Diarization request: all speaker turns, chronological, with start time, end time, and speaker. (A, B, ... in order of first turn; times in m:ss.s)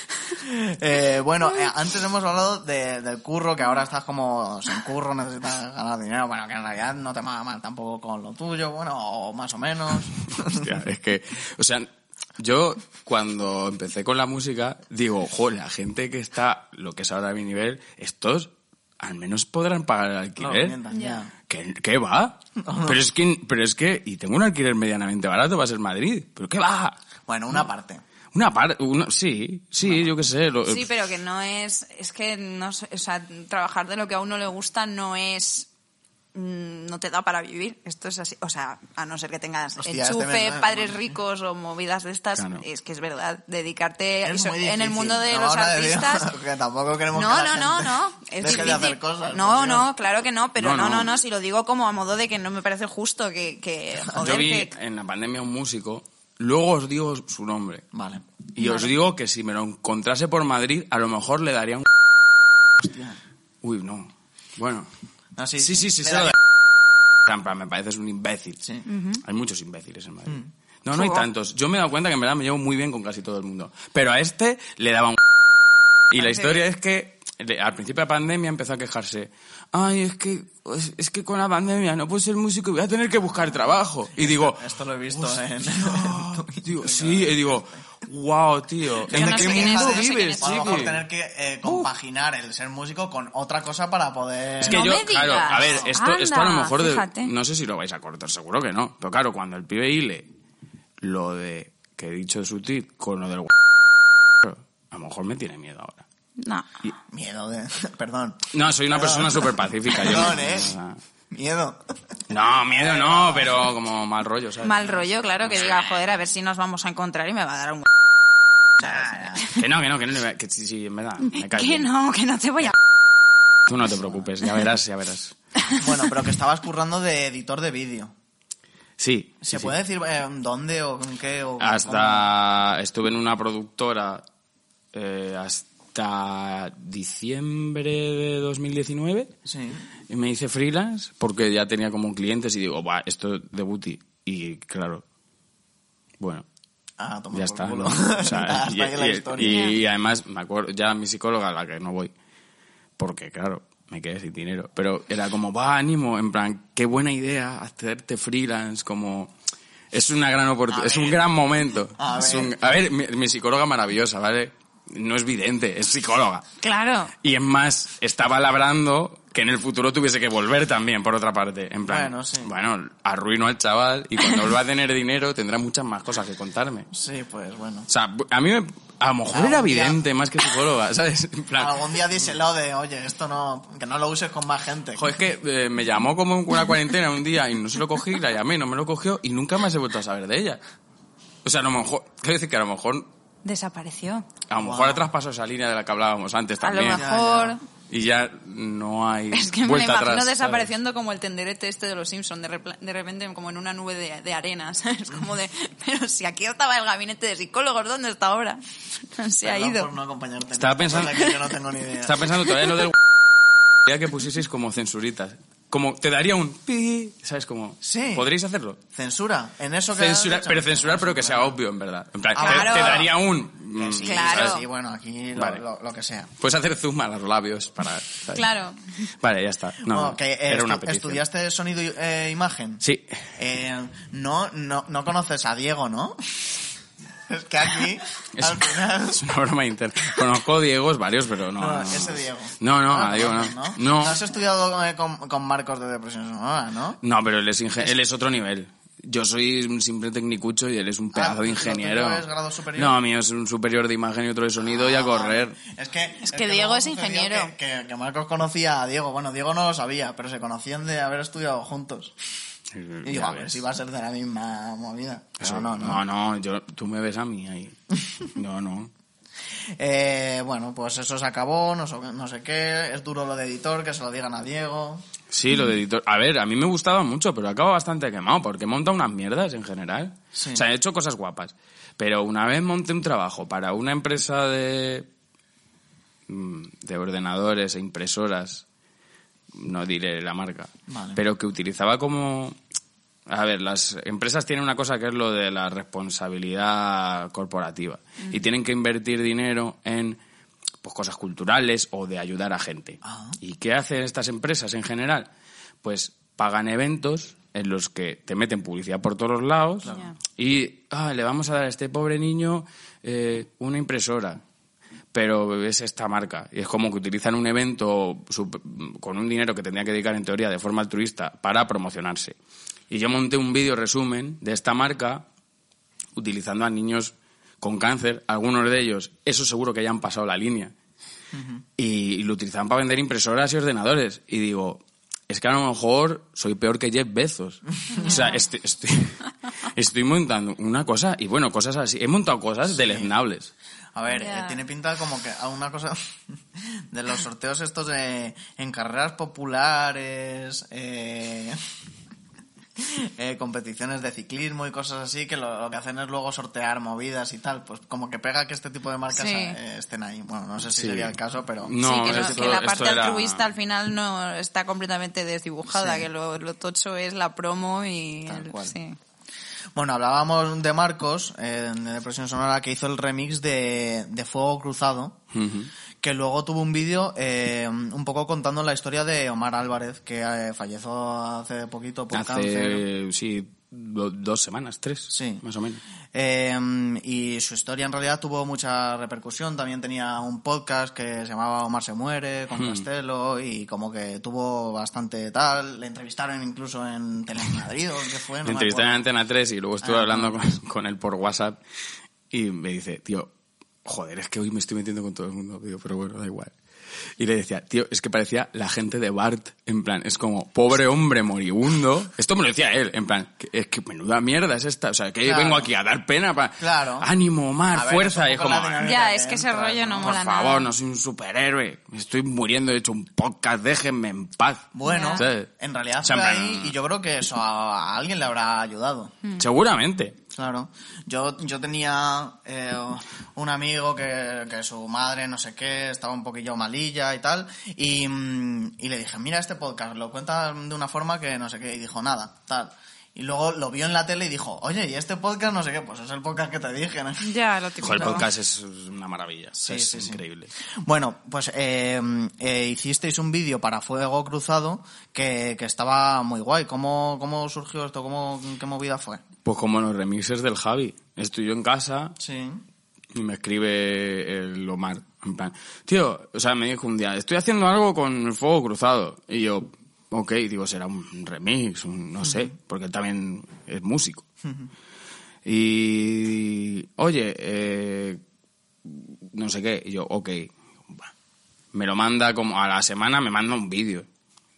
0:00.3-0:10.7 A
0:10.4-0:20.8 B
0:20.4-0:21.3 A
0:20.9-0:21.2 C
0:21.5-0:27.0 B
0:22.6-0:23.0 A
0:27.3-0:28.0 A
0:28.3-0:30.9 B
0:30.7-0:35.7 C
0:36.3-0:46.3 C
0:39.8-0:41.2 A
0:42.4-0:42.6 B
0:44.2-0:49.9 A
0:47.1-0:54.7 C
0:50.6-0:51.1 B
0:54.2-0:57.8 B
0:57.9-0:58.2 A
0:58.6-1:01.9 B
0:58.6-0:58.9 C
1:02.8-1:03.2 A
1:03.6-1:04.9 B
1:05.4-1:06.4 A
1:05.6-1:06.4 B
1:07.2-1:08.6 B
1:08.9-1:09.2 C
1:09.2-1:15.2 B
1:10.9-1:11.3 C
1:16.1-1:31.0 B
1:24.2-1:27.7 A
1:29.0-1:34.9 A
1:29.1-1:30.9 C
1:34.6-1:40.3 B
1:34.6-1:37.3 C
1:35.5-1:35.9 A
1:41.0-1:43.5 B
1:44.4-1:46.0 B
1:46.4-1:46.7 C
1:47.1-1:50.8 A
1:48.5-1:51.0 B
1:51.3-1:51.8 A
1:52.3-1:55.8 B
1:52.6-1:53.7 A
1:54.6-1:57.9 C
1:58.8-1:59.5 A
1:59.4-2:01.9 B
2:01.2-2:02.7 C
2:03.7-2:05.4 B
2:04.0-2:04.3 A
2:05.8-2:08.1 A
2:09.0-2:09.7 B
2:09.4-2:12.3 A
2:11.6-2:14.2 B
2:14.9-2:19.3 B
2:19.5-2:19.9 A
2:20.1-2:25.0 B
2:26.2-2:26.5 B
2:27.0-2:29.7 A
2:27.3-2:32.1 B
2:29.5-2:29.8 C
2:33.0-2:39.3 B
2:39.9-2:46.4 B
2:40.7-2:41.2 A
2:42.0-2:42.7 A
2:46.6-2:47.1 C
2:47.2-2:56.9 B
2:51.9-2:52.5 A
2:56.9-2:57.9 A
2:57.9-3:01.8 B
2:59.3-3:00.0 A
3:01.6-3:05.1 A
3:05.0-3:10.6 B
3:11.4-3:13.1 B
3:13.4-3:14.3 C
3:14.5-3:17.0 B
3:14.6-3:15.1 A
3:16.6-3:17.6 C
3:16.9-3:17.6 A
3:17.9-3:20.7 B
3:19.3-3:29.9 C
3:29.4-3:32.3 A
3:30.5-3:31.3 B
3:32.0-3:33.0 B
3:33.8-3:38.8 B
3:37.8-3:38.3 A
3:38.9-3:41.6 A
3:39.9-3:44.6 B
3:42.4-3:43.1 A
3:42.4-3:43.1 C
3:43.7-3:46.3 A
3:44.0-3:44.6 C
3:45.4-3:45.6 B
3:46.4-3:48.5 B
3:48.3-3:49.1 C
3:49.2-3:51.2 B
3:49.8-3:52.8 A
3:52.8-3:53.2 B
3:53.4-3:56.5 A
3:57.3-3:59.2 A
3:58.4-4:04.2 B
4:01.6-4:07.0 A
4:07.0-4:12.2 B
4:11.1-4:13.0 A
4:12.8-4:15.6 B
4:14.6-4:22.1 A
4:16.3-4:17.5 C
4:22.7-4:23.6 B
4:23.0-4:26.0 A
4:25.4-4:28.9 B
4:29.8-4:35.0 A
4:35.3-4:45.1 B
4:40.3-4:40.6 A
4:46.3-4:48.6 B
4:49.5-4:52.6 B
4:50.9-4:51.2 A
4:53.3-5:00.2 B
5:00.8-5:05.3 B
5:03.0-5:03.4 A
5:05.8-5:14.4 B
5:09.8-5:10.1 A
5:09.9-5:10.1 C
5:15.1-5:22.4 B
5:22.9-5:25.3 B
5:26.2-5:30.7 B
5:31.3-5:31.6 A
5:31.8-5:43.5 B
5:37.9-5:38.2 A
5:37.9-5:38.4 C
5:42.7-5:43.1 A
5:44.0-5:51.6 A
5:44.1-5:44.6 C
5:52.8-6:02.6 A
5:59.1-5:59.6 C
6:00.7-6:03.5 B
6:01.8-6:09.0 C
6:05.7-6:06.1 A
6:08.3-6:08.8 A
6:09.8-6:15.2 A
6:15.3-6:15.7 B
6:16.0-6:22.8 A
6:22.1-6:25.8 B
6:25.1-6:25.4 A
6:26.1-6:39.0 A
6:32.6-6:32.9 B
6:38.4-6:41.6 B
6:39.8-6:40.4 A
6:42.3-6:43.3 B
6:43.8-6:46.5 B
6:47.2-6:58.9 B
6:55.2-6:55.7 A
6:56.6-6:57.1 A
6:57.7-7:00.2 A
6:58.8-7:00.7 C
7:00.0-7:05.5 B
7:04.7-7:09.1 A
7:04.8-7:05.2 C
7:06.0-7:06.7 B
7:09.4-7:10.2 B
7:10.3-7:27.4 A
7:27.2-7:28.3 C
7:27.8-7:30.5 B
7:27.9-7:28.2 A
7:29.6-7:30.2 A
7:30.8-7:39.2 A
7:39.4-7:42.2 B
7:42.2-7:42.6 A
7:43.1-7:54.2 B
7:52.2-7:52.5 A
7:54.4-7:54.7 A
7:55.4-7:58.2 B
7:58.8-8:01.1 B
8:01.7-8:04.1 B